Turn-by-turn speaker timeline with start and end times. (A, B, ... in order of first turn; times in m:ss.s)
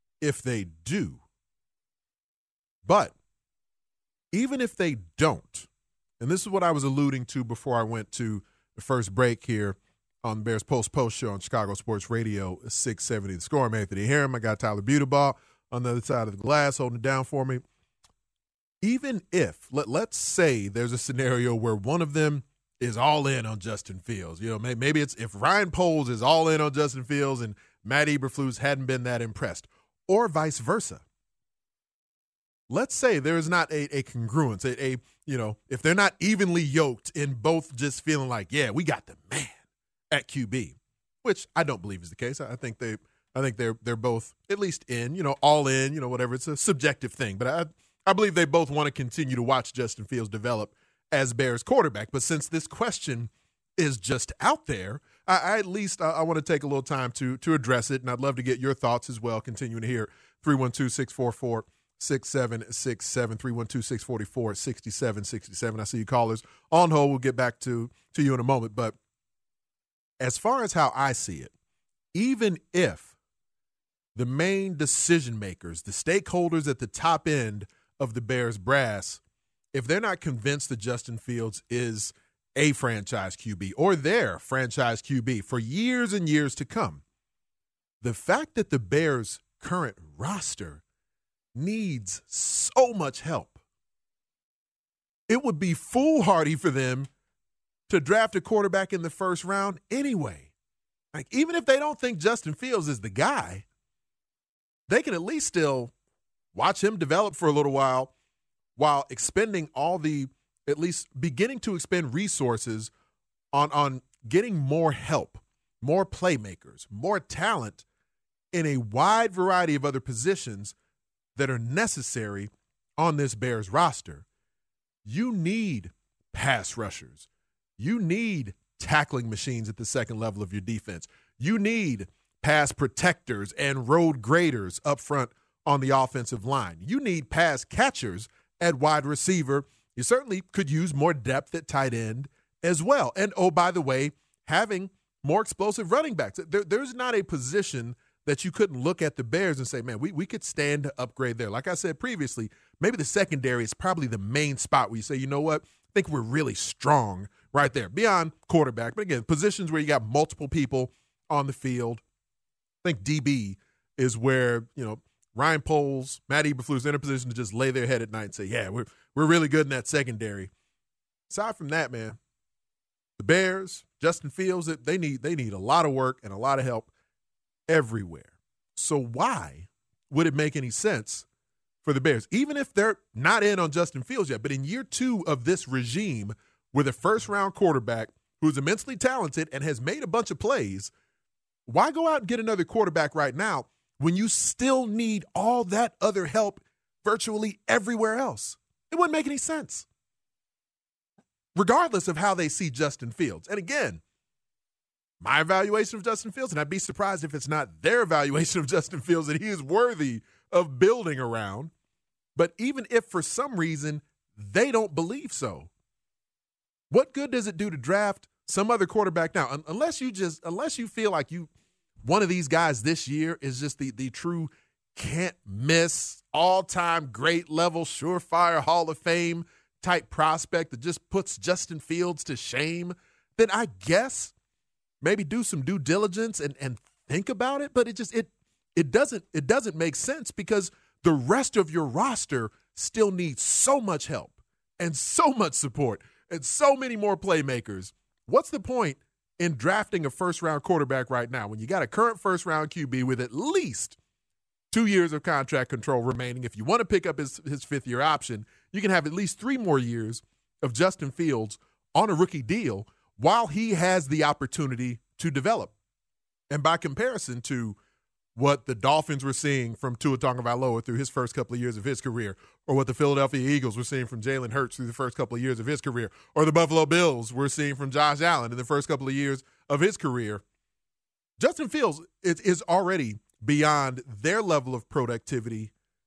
0:00.2-0:01.2 A
0:02.8-0:03.1 A
0:04.3-0:05.7 A
0:06.2-0:17.6 A
0:18.8-0:31.0 A
0:32.7-0:39.6 A
0:40.1-1:08.9 A
1:10.2-1:11.5 A
1:12.1-1:13.1 A
1:14.2-1:19.2 A
1:19.7-1:27.0 A
1:28.0-1:30.8 A
1:31.5-1:33.6 A
1:35.3-1:37.1 A
1:37.9-1:40.5 A
1:41.1-1:43.6 A
1:44.9-1:45.9 A
1:46.5-1:48.1 A
1:48.8-1:52.9 A
1:53.5-1:57.8 A
1:58.5-2:00.7 A
2:01.4-2:04.2 A
2:05.0-2:07.3 A
2:07.8-2:42.0 A
2:42.8-2:50.5 A
2:51.3-2:52.2 A
2:53.2-2:56.9 A
2:57.7-3:01.2 A
3:01.8-3:10.9 A
3:11.7-3:19.8 A
3:21.5-3:24.0 A
3:25.2-3:31.7 A
3:32.4-3:35.7 A
3:36.9-3:41.5 A
3:42.0-3:54.3 A
3:55.0-4:14.0 A
4:14.7-4:25.7 A
4:26.5-4:27.8 A
4:28.4-4:40.4 A
4:41.4-4:45.7 A